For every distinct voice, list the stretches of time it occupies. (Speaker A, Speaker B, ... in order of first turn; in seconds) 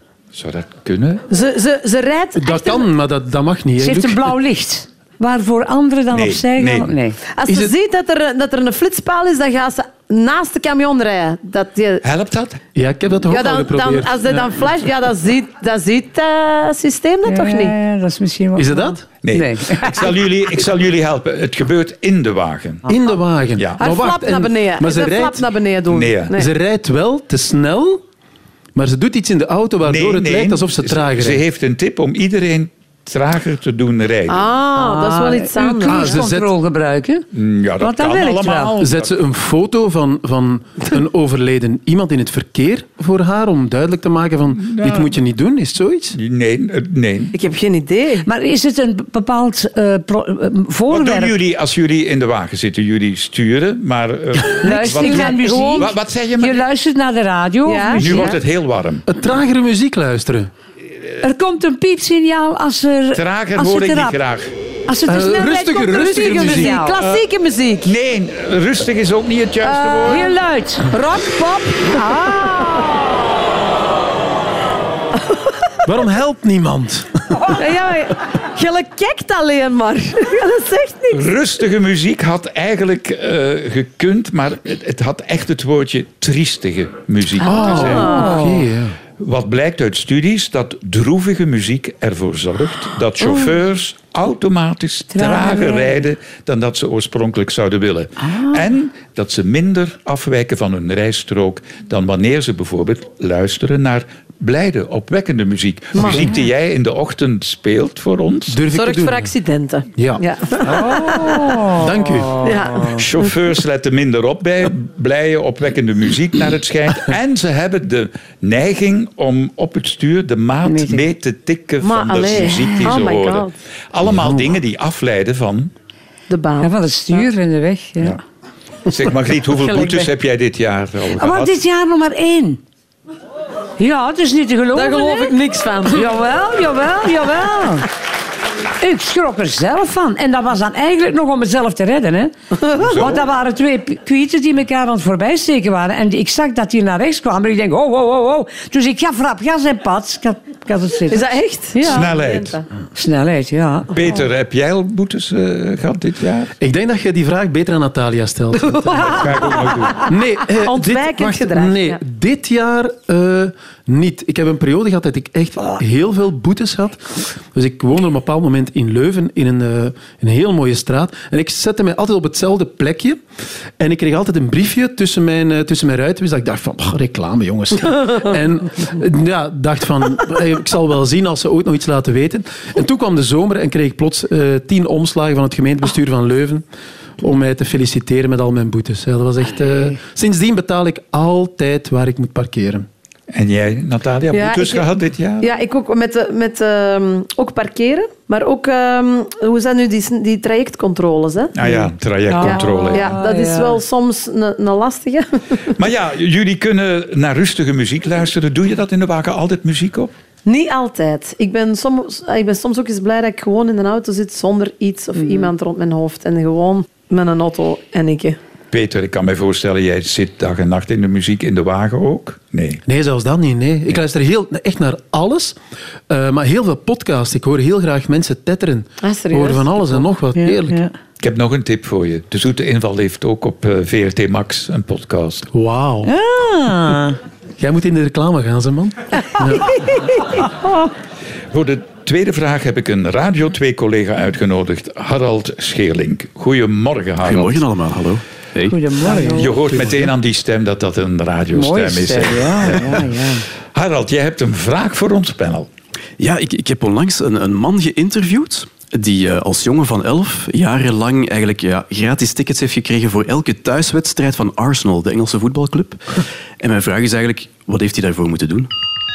Speaker A: 0.3-1.2, 6.1-6.9, 12.0-12.6, 19.2-22.9, 23.6-23.8, 25.9-26.4, 29.8-34.5, 37.3-39.1, 44.7-45.1, 46.1-47.4, 50.9-56.6, 57.9-59.0, 63.1-64.5, 67.8-70.3, 81.1-88.1, 89.2-108.6, 112.9-125.7, 128.9-131.6, 142.8-143.2, 151.8-152.6, 153.9-156.5, 159.1-160.1, 193.3-195.5, 201.5-203.2, 205.8-210.1, 218.7-222.8, 231.2-235.5, 241.5-247.6, 249.4-253.1, 253.7-255.7
Speaker B: 1.3-2.9, 7.4-12.0, 13.3-17.7, 23.8-26.5, 34.3-36.2, 47.3-48.3, 55.0-55.9, 57.6-58.4, 65.1-67.9, 69.6-70.3, 70.9-72.8, 75.2-75.5, 77.5-81.3, 87.7-88.4, 106.0-106.2, 108.7-111.6, 112.4-113.0, 121.8-123.5, 126.3-127.2, 129.6-130.1, 134.7-136.1, 142.7-143.1, 151.1-152.7, 158.9-159.3, 160.6-162.0, 194.3-194.9, 195.4-201.8, 202.4-205.7, 210.4-218.4, 229.0-230.0, 249.1-249.4
Speaker C: 2.4-4.3, 7.5-7.7, 12.7-14.5, 18.6-19.0, 22.9-25.4, 26.3-28.0, 28.7-31.4, 35.9-36.5, 38.8-46.2, 59.0-60.5, 65.1-66.8, 75.8-77.5, 87.4-89.0, 108.5-109.3, 110.0-110.7, 111.7-112.5, 156.6-159.3, 160.1-173.2, 173.8-186.6, 187.2-192.8, 222.8-225.6, 226.1-230.8, 235.5-236.1, 237.6-239.8, 249.1-250.0
Speaker D: 3.8-7.2, 17.2-20.1, 34.7-37.2, 37.8-38.7, 48.2-51.3, 54.6-58.4, 61.2-64.2, 64.9-67.0, 70.0-70.9, 71.8-73.0, 87.5-88.7, 95.1-95.9, 98.2-98.6, 110.6-113.0, 120.6-121.0, 122.6-122.9, 126.6-128.2, 131.2-132.6, 133.8-135.3, 135.9-137.9, 138.8-152.1, 152.9-154.0, 202.3-203.8, 230.3-230.9, 236.0-237.2, 248.7-249.5, 251.5-253.4
Speaker E: 247.2-248.8, 256.2-268.7